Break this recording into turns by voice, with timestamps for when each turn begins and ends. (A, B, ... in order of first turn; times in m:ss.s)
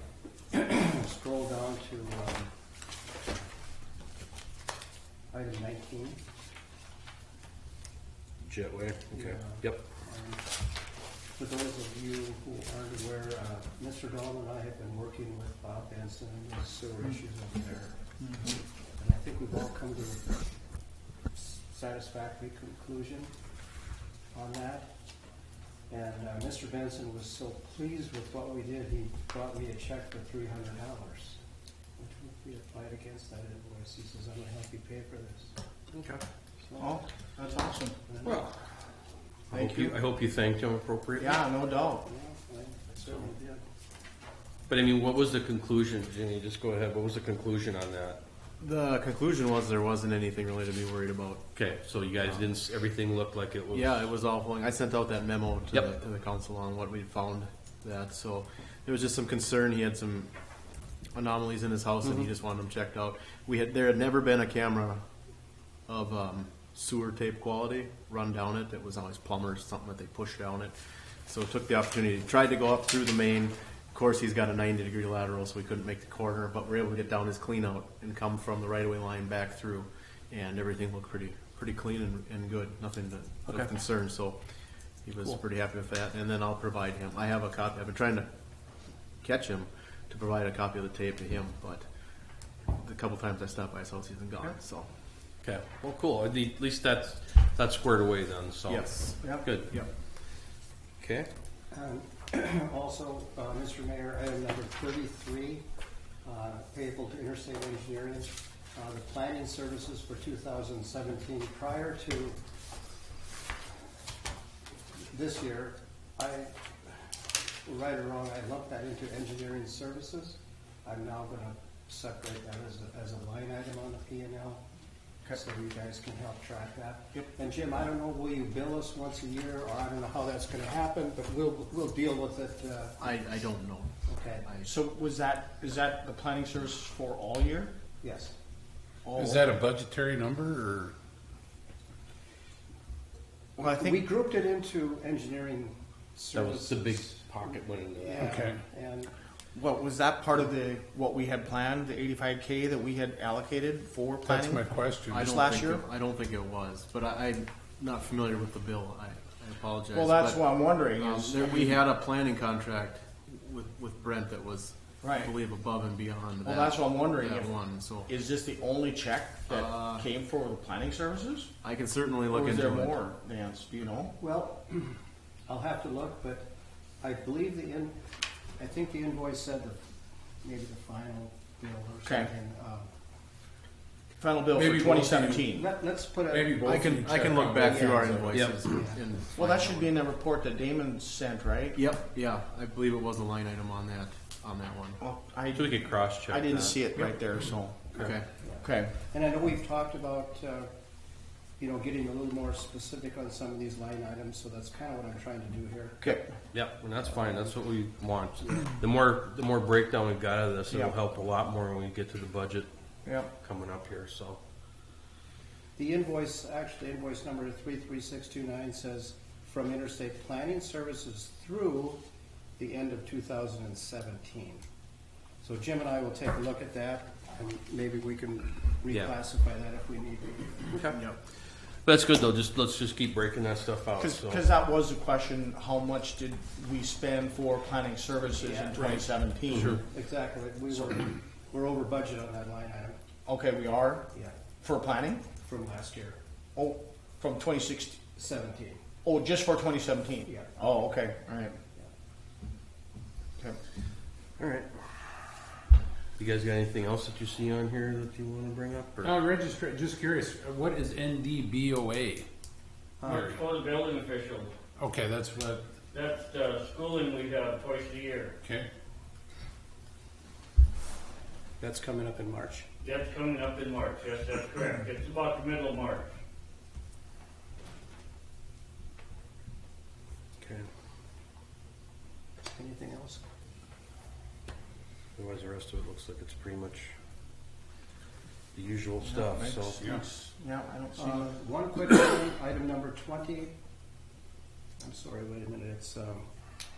0:00.5-0:02.5 A
0:05.3-0:06.2 A
0:08.4-0:09.8 B
0:09.1-0:10.5 A
0:11.4-0:20.5 A
0:21.3-0:23.3 A
0:24.3-0:24.9 A
0:25.9-0:31.4 A
0:32.0-0:35.6 A
0:36.0-0:36.2 B
0:36.7-0:37.0 A
0:36.8-0:38.0 C
0:38.1-0:38.5 A
0:38.2-0:38.5 B
0:39.5-0:40.0 C
0:39.5-0:41.4 B
0:41.2-0:42.1 C
0:42.0-0:43.6 A
0:44.7-0:48.2 B
0:48.6-0:51.5 D
0:51.5-0:54.1 B
0:53.7-1:00.3 D
1:01.1-1:05.0 D
1:05.9-1:10.7 D
1:11.3-1:24.4 D
1:25.0-1:28.3 D
1:29.2-1:31.9 D
1:32.8-1:34.9 D
1:35.4-1:39.7 B
1:38.7-1:39.1 D
1:38.9-1:39.9 C
1:41.0-1:41.3 B
1:41.7-1:45.6 A
1:46.2-1:52.4 A
1:55.1-1:57.1 A
1:57.6-2:04.6 A
2:05.3-2:13.1 A
2:13.0-2:13.9 D
2:14.1-2:14.5 A
2:14.4-2:14.7 D
2:14.6-2:17.8 C
2:18.0-2:18.4 A
2:19.0-2:19.6 C
2:19.2-2:21.0 E
2:23.6-2:24.1 C
2:23.6-2:27.1 A
2:26.3-2:28.3 B
2:27.8-2:29.1 A
2:28.2-2:28.6 E
2:29.6-2:35.9 C
2:34.2-2:35.3 E
2:35.1-2:48.1 D
2:39.9-2:41.9 C
2:45.0-2:45.3 C
2:46.4-2:51.5 C
2:49.5-2:50.0 D
2:51.6-2:53.0 D
2:52.3-2:54.2 C
2:54.2-2:56.5 A
2:57.0-2:58.0 A
2:58.6-2:59.8 A
3:00.4-3:02.9 A
3:02.0-3:02.3 C
3:04.2-3:05.7 C
3:04.8-3:05.3 E
3:05.5-3:09.8 A
3:06.3-3:08.2 E
3:06.6-3:09.8 D
3:08.3-3:08.6 B
3:09.4-3:11.8 C
3:11.8-3:15.0 D
3:15.0-3:18.9 C
3:15.5-3:16.8 B
3:18.0-3:18.3 D
3:18.4-3:20.7 A
3:21.6-3:26.2 A
3:26.0-3:26.3 C
3:26.5-3:32.7 B
3:27.1-3:27.4 A
3:30.7-3:31.0 C
3:33.0-3:33.3 C
3:33.4-3:34.4 B
3:35.8-3:42.0 A
3:42.6-3:44.6 A
3:45.4-3:50.8 A
3:50.7-3:51.0 B
3:50.9-3:51.2 C
3:51.8-3:54.4 B
3:54.0-3:59.8 C
3:58.4-4:03.0 A
4:00.7-4:01.0 C
4:03.3-4:04.1 C
4:04.6-4:05.2 C
4:05.4-4:06.2 A
4:06.6-4:08.0 C
4:08.2-4:08.8 A
4:09.0-4:11.6 C
4:14.4-4:14.9 B
4:16.2-4:19.1 B
4:19.0-4:22.3 E
4:23.0-4:23.3 A
4:23.0-4:23.4 E
4:23.1-4:24.5 F
4:24.8-4:25.6 E
4:25.9-4:28.4 F
4:28.4-4:28.7 E
4:31.6-4:32.7 A
4:32.8-4:36.1 F
4:42.5-4:43.2 A
4:45.2-4:46.9 B
4:48.5-4:50.0 B
4:49.0-4:51.4 C
4:51.0-4:53.6 A
4:54.8-4:56.3 A